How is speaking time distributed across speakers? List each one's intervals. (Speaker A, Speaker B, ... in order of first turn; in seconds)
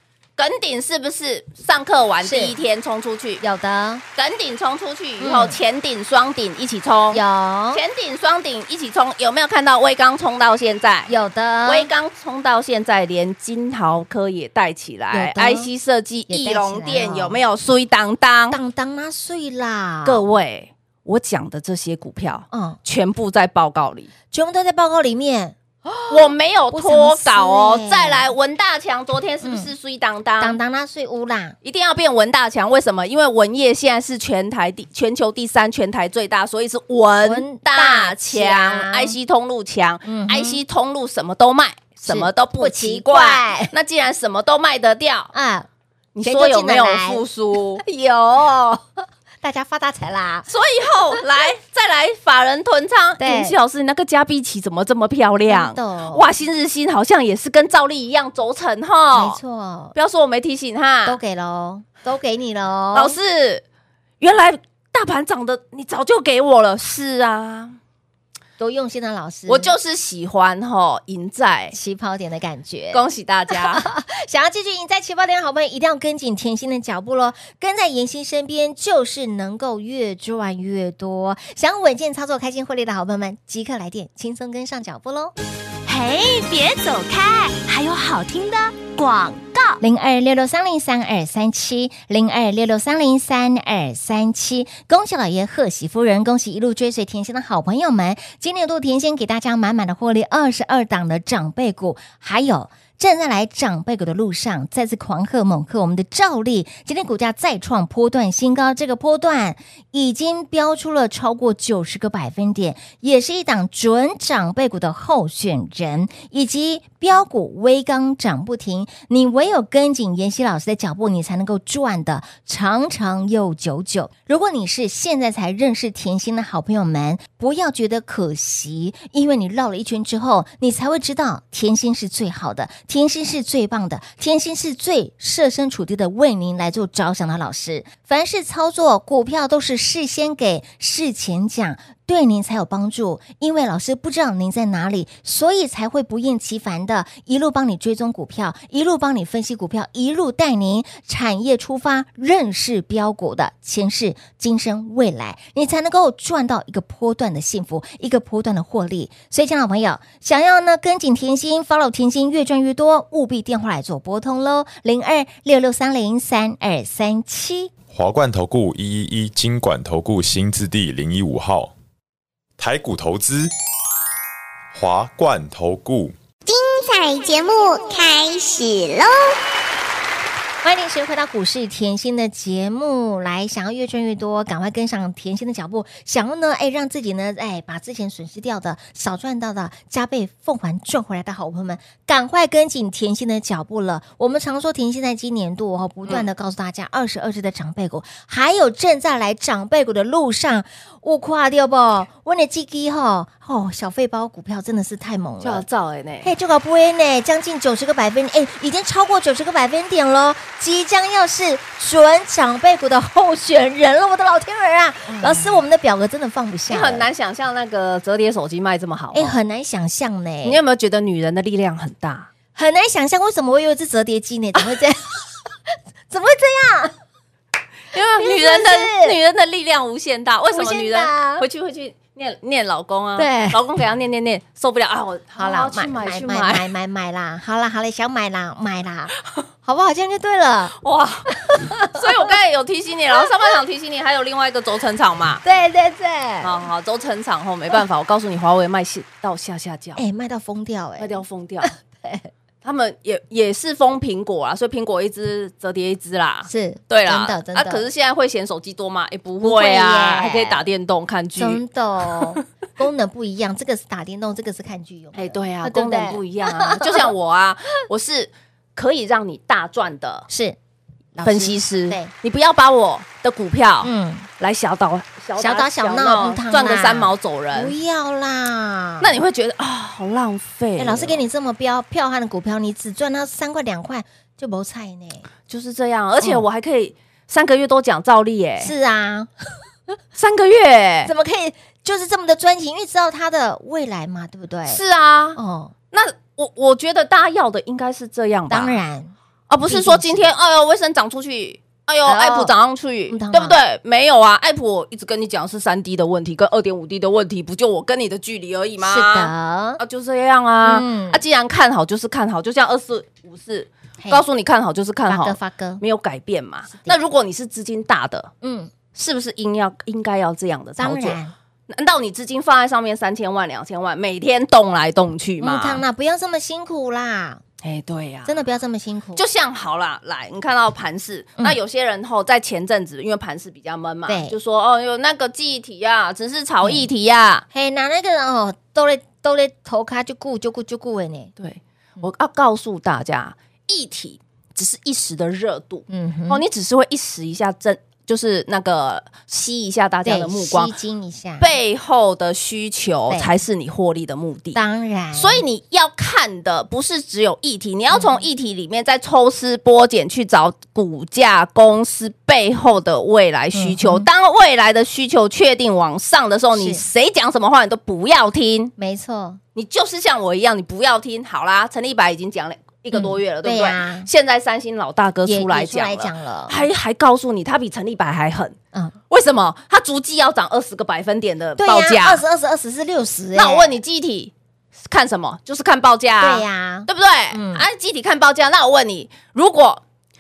Speaker A: 0.4-3.4, 4.2-7.2, 7.7-11.1, 11.7-18.6, 20.1-24.1, 26.1-30.6, 31.6-45.3, 46.1-47.8, 50.5-59.4, 60.0-61.2, 62.9-63.6, 64.2-67.8, 69.5-71.8, 72.9-73.8, 205.4-206.3, 215.1-215.6, 216.7-219.4, 220.4-222.3, 227.9-236.7, 240.8-245.4, 246.4-250.0, 251.0-251.7, 252.6-262.4, 265.1-270.3, 271.2-277.8, 279.0-281.2, 285.5-288.7, 290.2-291.1, 294.7-295.4, 295.9-298.8, 299.5-318.3, 318.9-325.8, 327.6-328.4, 329.2-337.4, 341.4-350.7, 351.4-354.6, 355.1-368.7, 369.6-378.6, 379.1-382.2, 383.4-384.3, 384.9-389.8
Speaker B: 2.2-2.5, 3.4-4.0, 5.2-5.6, 7.1-7.8, 11.1-11.9, 15.1-15.7, 16.3-17.4, 18.5-20.2, 22.5-22.8, 24.3-28.3, 29.4-29.7, 30.4-31.6, 37.2-39.2, 40.0-40.6, 42.1-43.7, 45.3-45.7, 46.2-47.2, 47.8-50.5, 53.2-53.6, 55.5-56.3, 59.1-60.0, 61.1-63.2, 68.6-69.7, 71.7-85.3, 89.8-167.7, 180.6-205.6, 206.2-217.1, 219.1-220.6, 222.6-225.3, 226.1-226.9, 227.9-229.2, 230.5-231.5, 233.2-233.6, 235.4-239.1, 239.7-240.8, 241.3-242.1, 245.4-246.6, 250.0-252.3, 256.5-257.9, 259.4-260.6, 261.4-267.1, 270.3-270.6, 271.1-272.1, 273.8-274.3, 275.4-279.2, 280.8-285.3, 288.6-289.3, 291.1-294.8, 295.4-295.7, 298.5-299.1, 299.7-300.3, 302.1-302.5, 303.1-303.6, 308.8-309.8, 310.6-311.2, 315.1-315.8, 318.4-318.7, 320.8-321.3, 325.4-327.4, 328.3-329.2, 334.1-334.4, 337.5-341.3, 345.9-346.4, 350.1-351.5, 354.6-355.4, 357.9-358.2, 363.5-364.1, 366.5-366.8, 368.8-369.4, 372.9-374.1, 375.3-376.7, 381.6-383.8, 386.2-387.6
Speaker C: 85.9-89.8
Speaker D: 167.9-171.7, 172.6-173.5, 174.7-176.2
Speaker E: 176.5-179.2